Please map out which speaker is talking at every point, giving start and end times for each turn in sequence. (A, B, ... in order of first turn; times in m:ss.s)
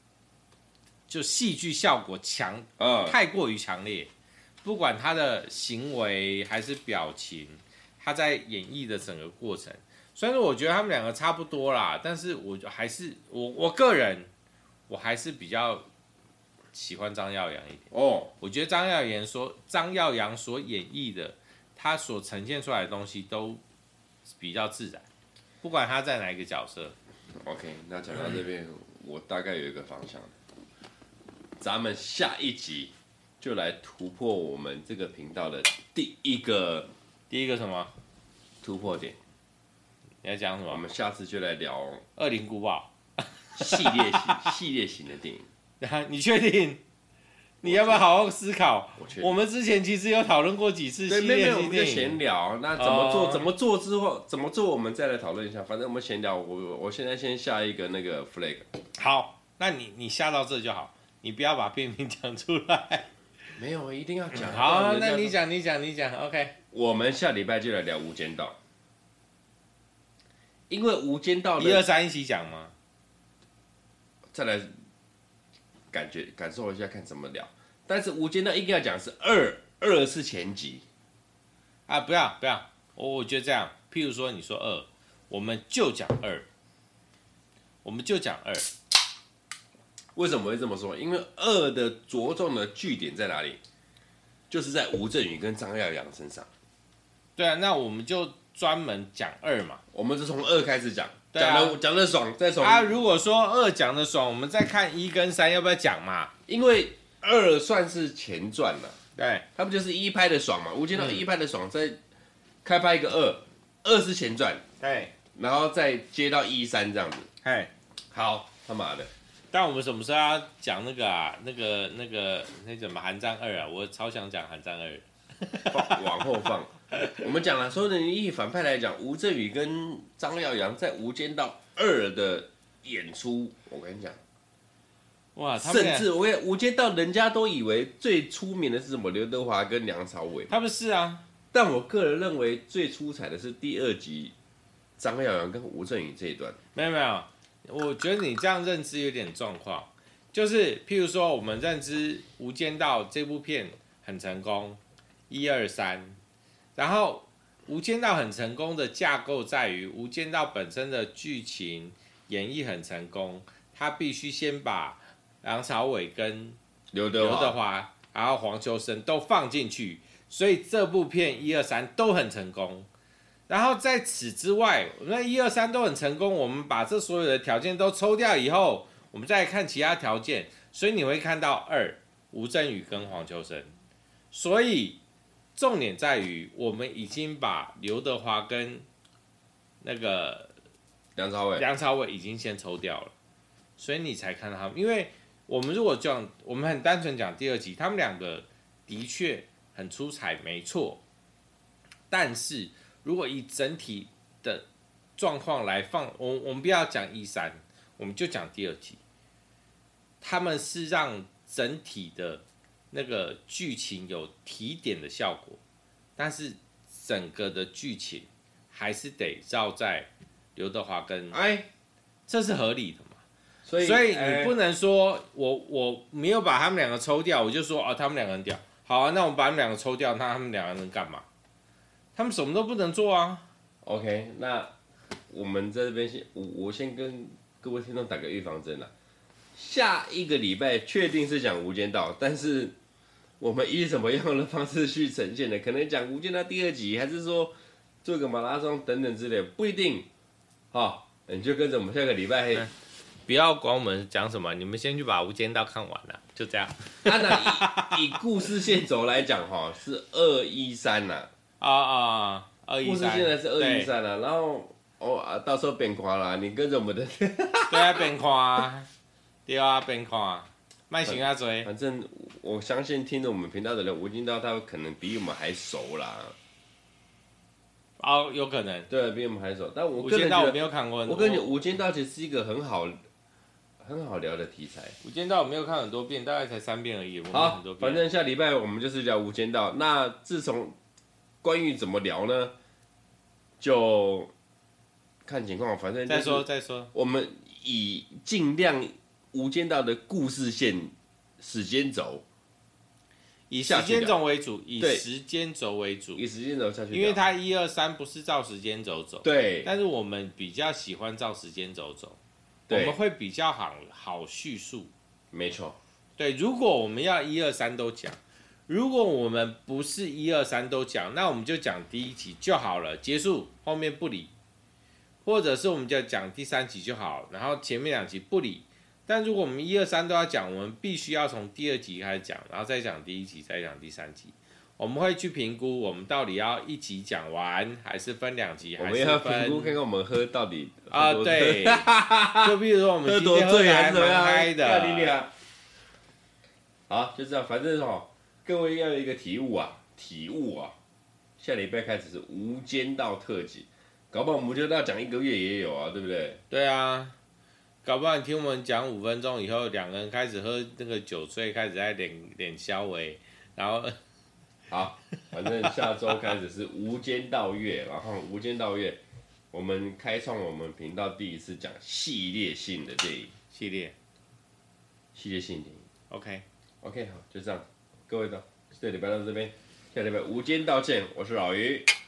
0:01.1-0:04.1 A
0:02.8-0:03.2 B
0:04.6-0:14.3 A
0:14.9-0:15.9 A
0:16.7-0:17.9 A
0:17.9-0:18.3 B
0:18.4-0:23.6 A
0:24.3-0:25.1 A
0:25.6-0:26.9 A
0:27.4-0:30.3 B
0:31.6-0:36.9 B
0:37.3-0:37.9 A
0:38.6-0:39.2 B
0:40.2-0:40.8 A
0:40.7-0:42.0 B
0:42.2-0:44.5 A
0:43.6-0:45.5 B
0:45.8-0:46.8 A
0:47.6-0:48.0 B
0:47.6-0:52.2 A
0:49.0-0:49.3 B
0:51.1-0:58.7 B
0:52.8-0:53.5 A
0:59.0-1:03.1 A
1:03.6-1:05.4 B
1:04.3-1:06.6 A
1:06.7-1:08.6 B
1:10.7-1:11.8 B
1:11.6-1:12.7 A
1:14.3-1:14.7 B
1:15.9-1:20.8 B
1:21.9-1:26.4 A
1:27.8-1:28.7 A
1:30.1-1:33.6 B
1:34.5-1:36.5 B
1:37.4-1:39.8 A
1:39.9-1:42.9 B
1:41.3-1:41.8 A
1:42.6-1:46.3 A
1:46.5-1:49.0 B
1:49.2-1:49.4 A
1:49.6-1:52.0 B
1:52.6-1:54.6 B
1:54.8-1:55.1 A
1:55.4-1:57.3 B
1:57.4-1:57.7 A
1:58.1-1:59.1 B
1:59.5-2:06.0 A
2:05.7-2:14.2 B
2:15.4-2:16.1 A
2:15.6-2:20.5 B
2:20.5-2:21.2 A
2:21.5-2:24.4 B
2:25.0-2:26.6 B
2:26.8-2:34.8 A
2:35.3-2:36.2 A
2:36.8-2:46.6 A
2:46.9-2:47.6 B
2:47.2-2:52.9 A
2:53.5-3:03.7 A
3:04.3-3:05.0 A
3:05.6-3:08.9 A
3:09.8-3:10.5 A
3:11.2-3:11.6 B
3:11.6-3:13.1 A
3:13.8-3:21.0 A
3:22.1-3:24.6 A
3:25.2-3:29.0 A
3:30.2-3:35.6 A
3:36.2-3:41.4 A
3:41.3-3:41.7 B
3:42.3-3:43.2 A
3:43.6-3:44.6 B
3:43.8-3:51.2 A
3:52.1-3:53.4 A
3:53.8-3:54.7 B
3:55.3-3:58.9 B
3:59.6-4:02.8 B
4:03.4-4:10.1 B
4:10.7-4:12.7 B
4:13.3-4:18.2 A
4:17.0-4:21.3 B
4:21.6-4:23.9 A
4:22.8-4:28.1 B
4:27.7-4:28.9 A
4:29.4-4:31.7 A
4:31.0-4:36.4 B
4:38.0-4:38.9 A
4:38.9-4:43.0 B
4:40.0-4:41.5 A
4:43.8-4:45.0 B
4:45.0-4:48.0 A
4:47.3-4:50.8 B
4:51.4-4:52.5 B
4:53.6-4:54.3 B
4:55.2-5:02.2 B
4:56.1-4:56.9 A
5:03.5-5:06.2 A
5:03.6-5:04.2 B
5:04.8-5:05.0 B
5:06.2-5:07.2 B
5:06.9-5:12.2 A
5:09.2-5:09.7 B
5:12.7-5:13.0 B
5:12.7-5:14.9 A
5:15.3-5:15.8 B
5:16.2-5:24.3 A
5:25.2-5:39.8 A
5:38.8-5:45.3 B
5:40.9-5:45.2 A
5:46.9-5:50.8 B
5:51.4-5:56.4 B
5:56.5-5:57.1 A
5:57.8-6:04.0 A
6:04.7-6:09.0 B
6:05.4-6:05.9 A
6:09.5-6:13.4 B
6:13.5-6:13.9 A
6:15.1-6:15.9 B
6:16.1-6:16.4 A
6:16.8-6:21.9 B